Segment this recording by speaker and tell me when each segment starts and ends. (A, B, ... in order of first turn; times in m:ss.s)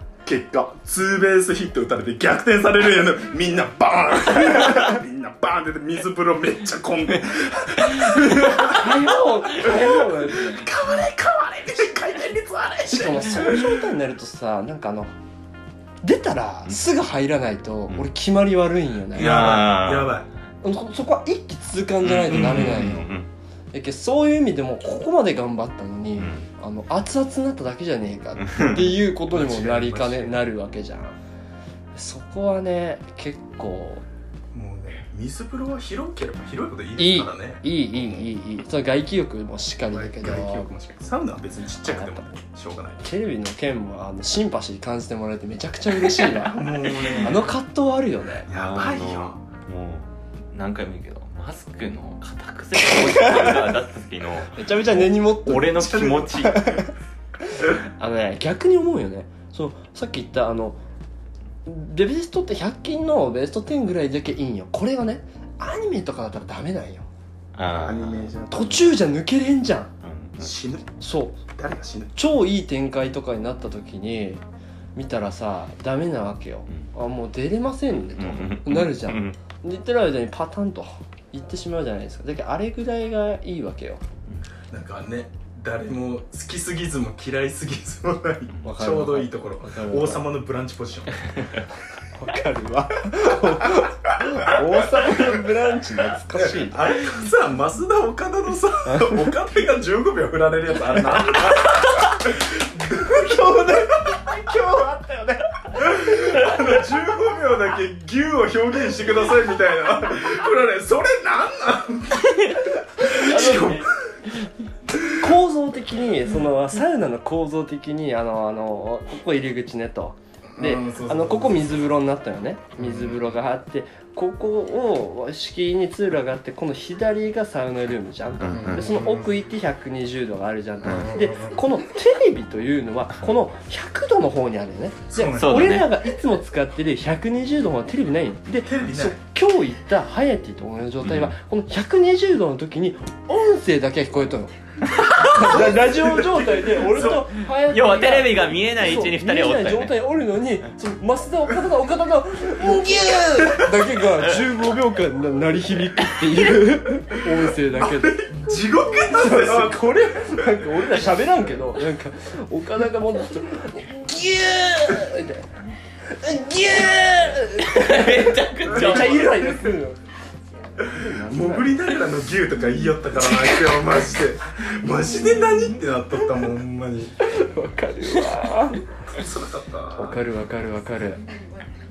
0:00.2-0:09.0 A
0:08.0-0:08.3 B
0:08.4-0:10.6 C
0:09.5-0:13.9 A
0:12.9-0:15.1 C
0:16.0-0:19.6 C
0:19.1-0:20.1 B
0:19.1-0:20.3 A
0:20.6-0:23.1 C
0:22.0-0:23.3 B
0:22.3-0:22.9 A
0:23.7-0:31.2 C
0:26.2-0:26.5 B
0:28.4-0:28.9 B
0:29.3-0:30.4 A
0:31.9-0:34.0 C
0:34.5-0:38.3 A
0:37.0-0:40.7 C
0:39.9-0:43.0 A
0:41.9-0:42.2 C
0:43.0-0:46.6 C
0:46.2-0:47.5 A
0:46.8-0:47.4 B
0:47.2-0:48.5 C
0:48.5-0:49.4 A
0:48.5-0:54.6 B
0:54.5-0:55.9 C
0:55.0-0:56.8 A
0:55.4-0:56.7 B
0:56.5-0:56.9 C
0:57.6-1:00.8 C
1:01.6-1:07.1 C
1:07.5-1:08.3 B
1:07.7-1:09.0 A
1:08.5-1:09.9 C
1:10.0-1:10.6 B
1:10.4-1:10.9 A
1:11.0-1:11.4 C
1:11.5-1:12.2 A
1:12.1-1:14.4 C
1:14.9-1:24.0 C
1:18.0-1:19.4 B
1:24.7-1:31.3 A
1:28.6-1:30.3 C
1:32.1-1:36.8 C
1:33.1-1:35.2 A
1:36.3-1:44.2 A
1:38.9-1:39.2 C
1:43.0-1:45.4 C
1:45.7-1:53.9 A
1:52.3-1:53.9 B
1:53.1-1:53.8 C
1:55.1-2:38.3 C
2:00.5-2:01.8 A
2:02.8-2:03.3 A
2:08.4-2:08.9 B
2:08.5-2:09.3 A
2:10.8-2:11.1 B
2:10.8-2:11.6 A
2:15.1-2:15.7 A
2:15.3-2:15.9 B
2:18.6-2:19.2 A
2:21.0-2:21.3 B
2:24.9-2:25.5 B
2:25.3-2:27.3 A
2:27.5-2:30.0 B
2:32.7-2:33.1 B
2:33.0-2:33.9 A
2:34.2-2:34.5 B
2:36.1-2:36.6 B
2:37.6-2:41.0 A
2:38.9-2:45.5 C
2:44.1-2:45.1 B
2:46.0-2:50.0 C
2:46.6-2:49.6 B
2:48.7-2:49.4 A
2:50.7-2:51.8 C
2:50.8-2:57.2 A
2:57.2-2:58.8 C
2:59.1-3:00.3 A
2:59.9-3:01.3 C